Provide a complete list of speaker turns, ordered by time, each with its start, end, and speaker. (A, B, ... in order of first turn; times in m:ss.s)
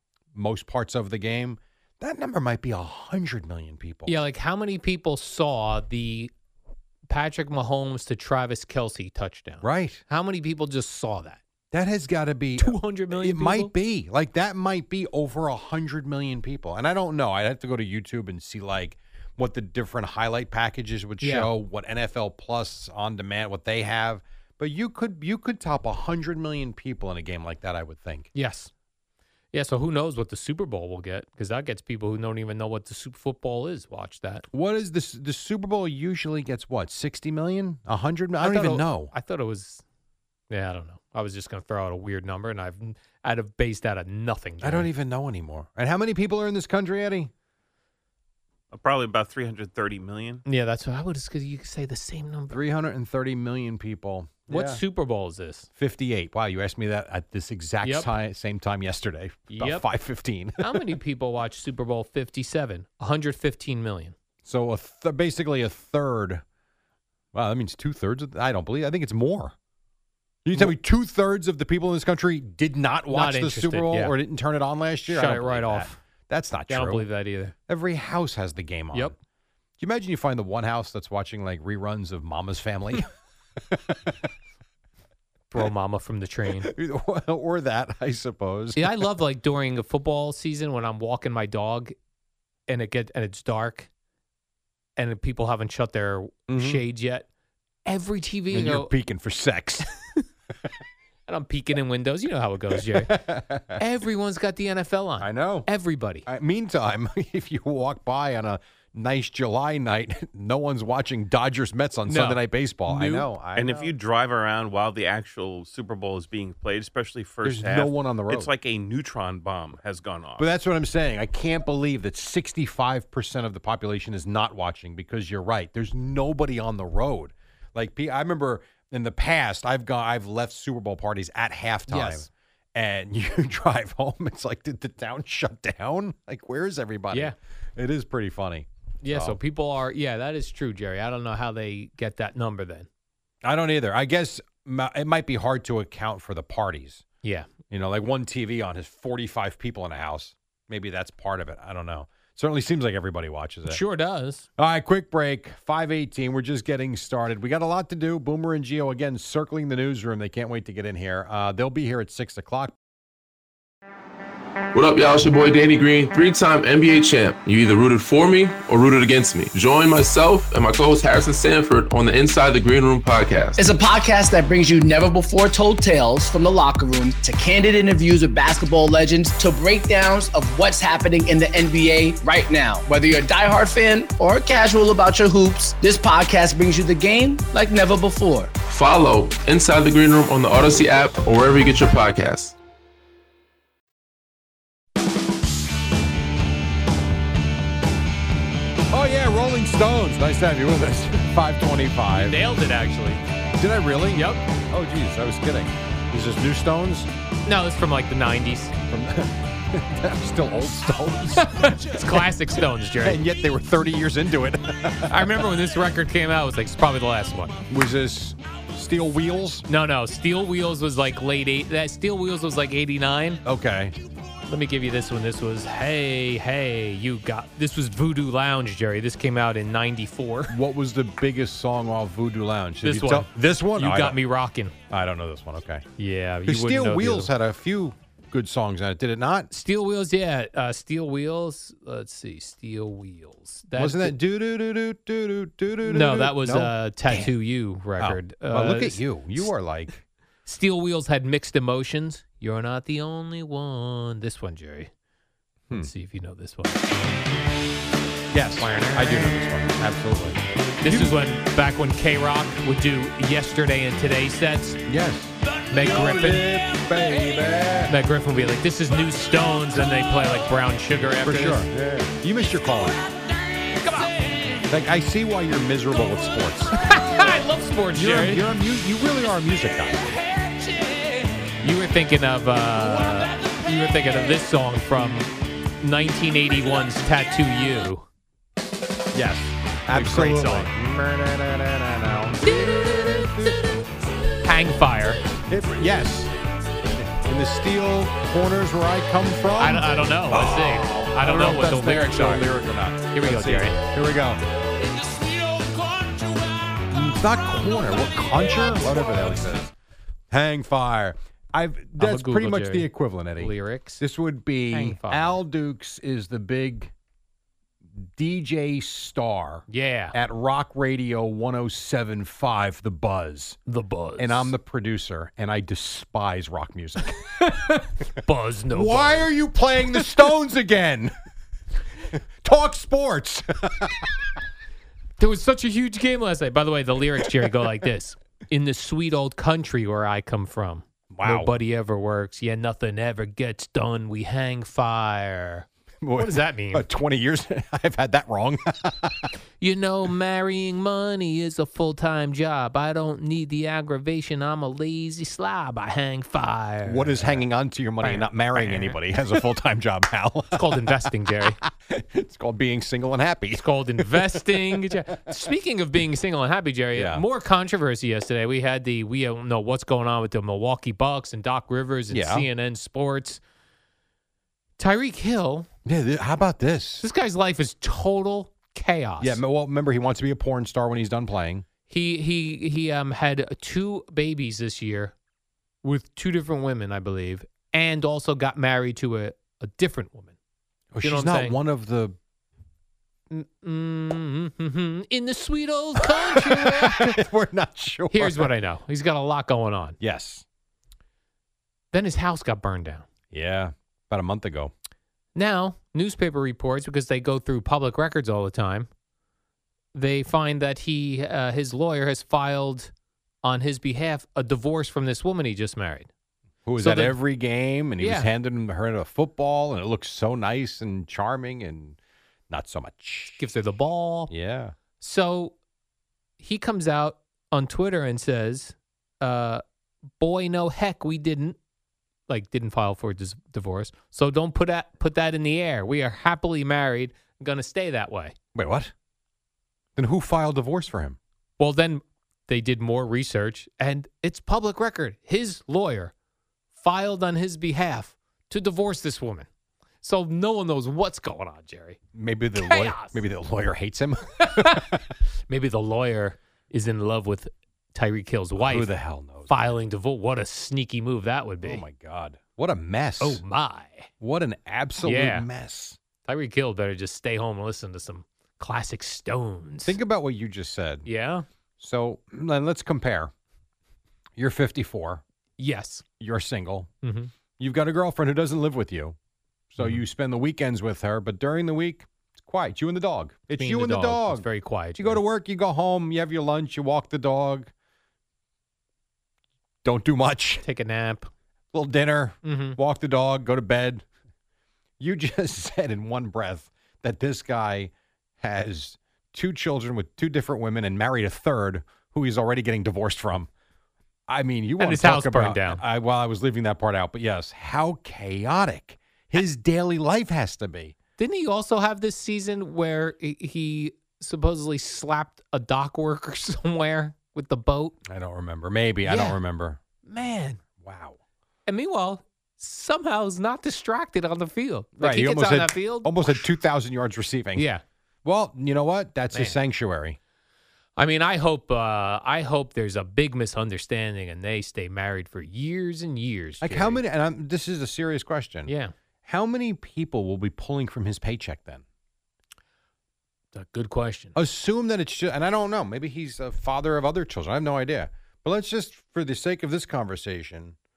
0:00.3-0:04.2 A
0:04.1-0:06.3 B
0:07.1-0:11.4 B
0:09.6-0:10.0 A
0:11.7-0:28.3 A
0:12.6-0:13.7 B
0:21.2-0:21.5 B
0:28.3-0:28.7 B
0:29.5-0:34.4 B
0:34.5-0:39.1 A
0:38.4-0:39.8 B
0:40.5-0:44.9 B
0:44.6-0:47.3 A
0:48.7-0:50.4 C
0:50.4-0:52.6 B
0:52.5-0:54.8 A
0:54.5-0:55.7 B
0:55.8-1:00.8 A
0:57.8-0:58.1 B
0:59.5-0:59.8 B
1:00.6-1:04.1 B
1:04.4-1:06.4 A
1:07.3-1:09.5 A
1:10.4-1:17.1 A
1:13.1-1:14.1 B
1:15.1-1:15.9 B
1:16.7-1:17.5 B
1:17.7-1:19.2 A
1:19.8-1:23.1 A
1:23.7-1:24.3 A
1:25.5-1:26.7 B
1:26.6-1:29.0 A
1:28.8-1:31.9 B
1:32.7-1:33.9 B
1:35.0-1:37.3 B
1:36.5-1:36.8 A
1:37.8-1:38.9 B
1:38.5-1:39.9 A
1:41.3-1:43.2 B
1:42.9-1:43.8 A
1:43.8-1:46.2 B
1:45.2-1:45.7 A
1:46.2-1:53.9 A
1:52.1-1:53.3 B
1:53.5-2:00.5 C
1:57.4-1:58.5 A
2:00.4-2:19.4 A
2:11.9-2:12.3 B
2:19.0-2:22.9 B
2:23.4-2:27.0 A
2:27.2-2:27.5 B
2:27.7-2:33.8 A
2:33.7-2:34.5 B
2:34.6-2:42.7 A
2:44.7-2:53.6 D
2:53.6-3:08.5 E
3:08.7-3:12.6 D
3:18.9-3:22.4 A
3:22.2-3:23.2 B
3:23.6-3:27.1 A
3:24.1-3:24.4 B
3:27.4-3:28.7 B
3:28.9-3:32.3 A
3:31.4-3:33.2 B
3:33.0-3:35.4 A
3:35.1-3:37.6 B
3:37.7-3:39.7 A
3:39.7-3:43.4 B
3:43.4-3:43.9 A
3:44.5-3:50.5 B
3:50.5-3:54.2 A
3:52.8-3:54.7 B
3:54.9-3:55.8 A
3:56.0-3:57.3 B
3:56.5-3:59.5 A
3:59.5-4:04.2 B
4:03.8-4:07.3 A
4:05.8-4:09.5 B
4:08.0-4:10.0 A
4:10.4-4:14.9 B
4:15.7-4:16.9 B
4:18.3-4:21.1 A
4:18.8-4:19.1 B
4:20.8-4:24.8 B
4:24.9-4:27.9 A
4:25.7-4:26.5 B
4:27.9-4:31.7 B
4:31.2-4:33.0 A
4:33.6-4:34.3 B
4:34.7-4:37.3 A
4:36.8-4:38.4 B
4:37.9-4:40.2 A
4:41.6-4:48.0 B
4:49.1-4:53.8 A
4:49.9-4:50.7 B
4:52.4-4:52.7 B
4:54.4-4:55.2 B
4:55.5-4:56.3 A
4:56.9-5:04.4 A
4:59.6-5:02.5 B
5:03.1-5:03.8 B
5:06.9-5:09.7 A
5:10.3-5:16.9 A
5:12.0-5:14.0 B
5:14.7-5:15.4 B
5:18.1-5:23.6 A
5:19.7-5:20.2 B
5:23.7-5:24.5 B
5:24.2-5:27.2 A
5:27.3-5:29.3 B
5:28.7-5:31.1 A
5:32.1-5:34.1 A
5:35.2-5:46.8 B
5:41.1-5:41.5 A
5:46.0-5:49.3 A
5:49.6-5:57.4 B
5:56.8-6:05.3 A
5:58.0-5:59.0 B
6:00.5-6:01.6 B
6:03.6-6:13.4 B
6:06.9-6:07.2 A
6:12.1-6:12.5 A
6:14.8-6:15.7 B
6:15.8-6:17.0 A
6:17.0-6:19.4 B
6:19.2-6:21.6 A
6:21.9-6:25.1 B
6:25.8-6:30.3 B
6:30.9-6:32.2 A
6:31.0-6:31.6 B
6:33.3-6:37.2 B
6:36.0-6:38.5 A
6:38.1-6:40.0 B
6:40.0-6:40.4 A
6:41.9-6:43.0 B
6:43.3-6:44.7 A
6:45.3-6:48.9 B
6:49.9-6:52.9 B
6:53.4-6:56.1 B
6:56.6-7:02.0 A
6:56.8-6:57.2 B
6:58.0-6:58.3 B
7:02.5-7:03.4 A
7:03.3-7:04.3 B
7:04.3-7:04.7 A
7:05.0-7:05.5 B
7:06.4-7:09.6 B
7:10.2-7:11.6 B
7:12.3-7:18.3 B
7:18.5-7:18.9 A
7:20.0-7:21.2 A
7:21.6-7:26.1 B
7:26.8-7:29.5 B
7:30.0-7:32.0 B
7:32.1-7:35.1 A
7:32.5-7:33.2 B
7:34.4-7:34.9 B
7:35.5-7:38.9 B
7:38.6-7:39.5 A
7:39.5-7:41.8 B
7:41.6-7:43.4 A
7:43.2-7:44.1 B
7:44.2-7:46.0 A
7:45.0-7:45.5 B
7:46.2-7:49.9 B
7:49.8-7:51.1 A
7:51.0-7:51.4 B
7:51.8-7:53.3 A
7:54.4-7:55.2 A
7:55.6-7:56.0 B
7:56.2-7:56.9 A
7:57.0-7:57.3 B
7:57.6-7:59.2 A
7:59.7-8:04.4 A
8:03.5-8:05.2 B
8:05.0-8:07.7 A
8:09.8-8:10.6 A
8:10.6-8:11.3 B
8:11.7-8:14.0 A
8:12.4-8:12.8 B
8:15.0-8:23.5 A
8:24.3-8:31.0 A
8:24.8-8:25.8 B
8:31.2-8:38.0 B
8:38.0-8:39.8 A
8:39.0-8:39.4 B
8:40.0-8:40.6 B
8:40.8-8:41.2 A
8:41.6-8:46.5 B
8:45.0-8:47.6 A
8:47.6-8:47.8 B
8:48.2-8:50.2 A
8:49.3-8:49.6 B
8:51.0-8:57.0 B
8:56.6-8:58.7 A
8:58.7-8:58.9 B
8:59.2-9:01.8 A
9:03.5-9:04.4 B
9:04.3-9:10.8 A